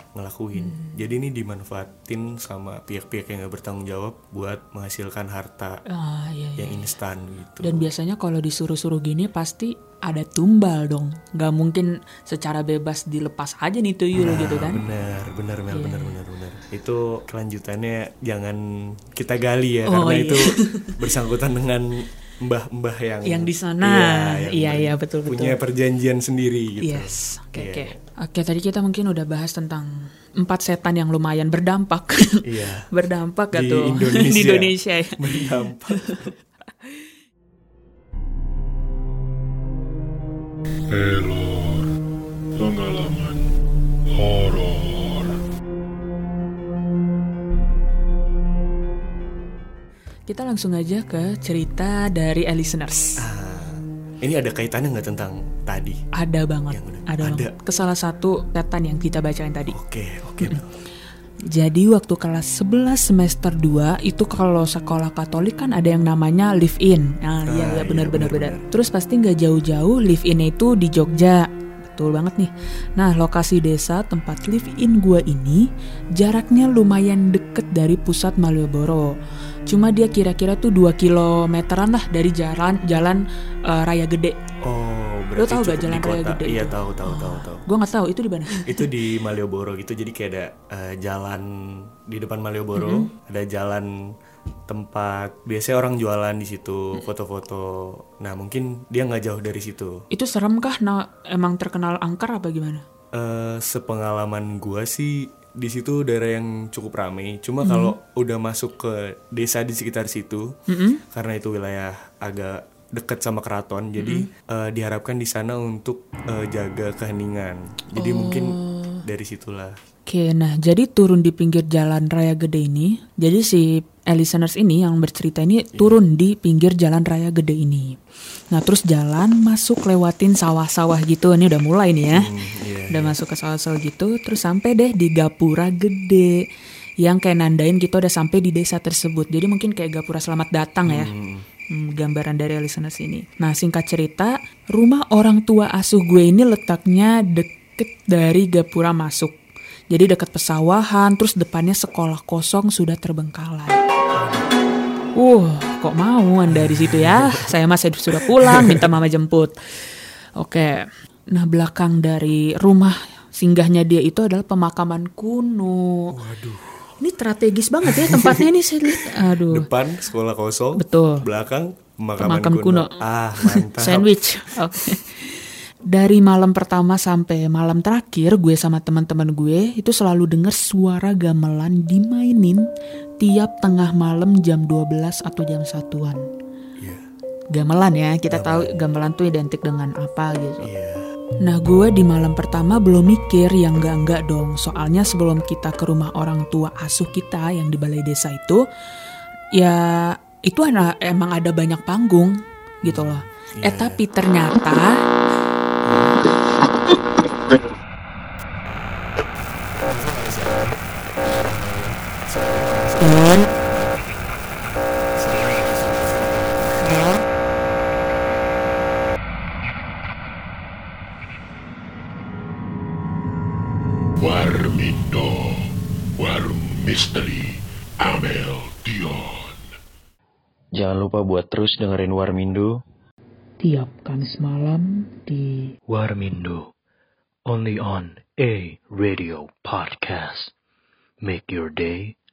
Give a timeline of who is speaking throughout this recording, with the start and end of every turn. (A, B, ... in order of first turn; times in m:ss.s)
0:00.2-0:05.8 A
0:00.6-0:01.0 B
0:05.9-0:06.9 B
0:06.6-0:07.9 A
0:07.6-0:14.8 B
0:14.2-0:28.0 A
0:15.7-0:16.2 B
0:19.8-0:21.0 B
0:23.2-0:25.6 B
0:26.8-0:36.3 B
0:32.4-0:32.9 A
0:33.5-0:36.3 A
0:40.9-0:41.9 C
0:42.6-0:43.4 C
0:44.1-0:45.4 C
0:50.3-0:53.3 B
0:53.2-0:56.0 A
0:56.2-0:59.8 B
0:56.7-0:57.5 A
0:59.7-1:00.7 A
1:01.5-1:19.1 B
1:07.5-1:08.7 A
1:19.7-1:24.4 B
1:24.6-1:27.6 A
1:25.4-1:28.9 B
1:28.6-1:33.9 A
1:32.8-1:33.1 B
1:34.7-1:40.1 A
1:40.1-1:42.8 B
1:43.1-1:50.6 A
1:47.6-1:48.0 B
1:50.7-1:51.0 B
1:51.1-1:59.8 A
1:54.0-1:54.3 B
1:58.0-1:59.0 B
2:00.1-2:08.0 B
2:08.5-2:12.3 B
2:12.1-2:13.2 A
2:12.9-2:16.5 B
2:17.0-2:21.1 B
2:20.9-2:21.5 A
2:21.7-2:29.4 B
2:29.9-2:33.8 B
2:34.1-2:34.5 A
2:35.2-2:39.5 B
2:36.5-2:37.5 A
2:38.3-2:38.9 A
2:40.4-2:46.1 B
2:46.1-2:46.9 A
2:47.0-2:49.7 B
2:47.8-2:54.1 A
2:50.8-2:51.3 B
2:52.2-3:02.7 B
3:03.2-3:06.2 B
3:06.8-3:07.1 A
3:07.5-3:10.7 B
3:08.3-3:08.9 A
3:10.6-3:11.1 A
3:11.4-3:18.7 B
3:19.5-3:25.0 B
3:22.8-3:24.0 A
3:25.8-3:26.2 A
3:29.8-3:34.2 A
3:35.2-3:37.1 A
3:44.2-3:49.6 C
3:50.7-3:52.8 D
3:53.6-3:55.8 E
3:56.0-3:56.7 F
3:57.5-3:59.2 F
3:59.4-4:00.2 D
3:59.8-4:00.5 F
4:01.4-4:02.0 F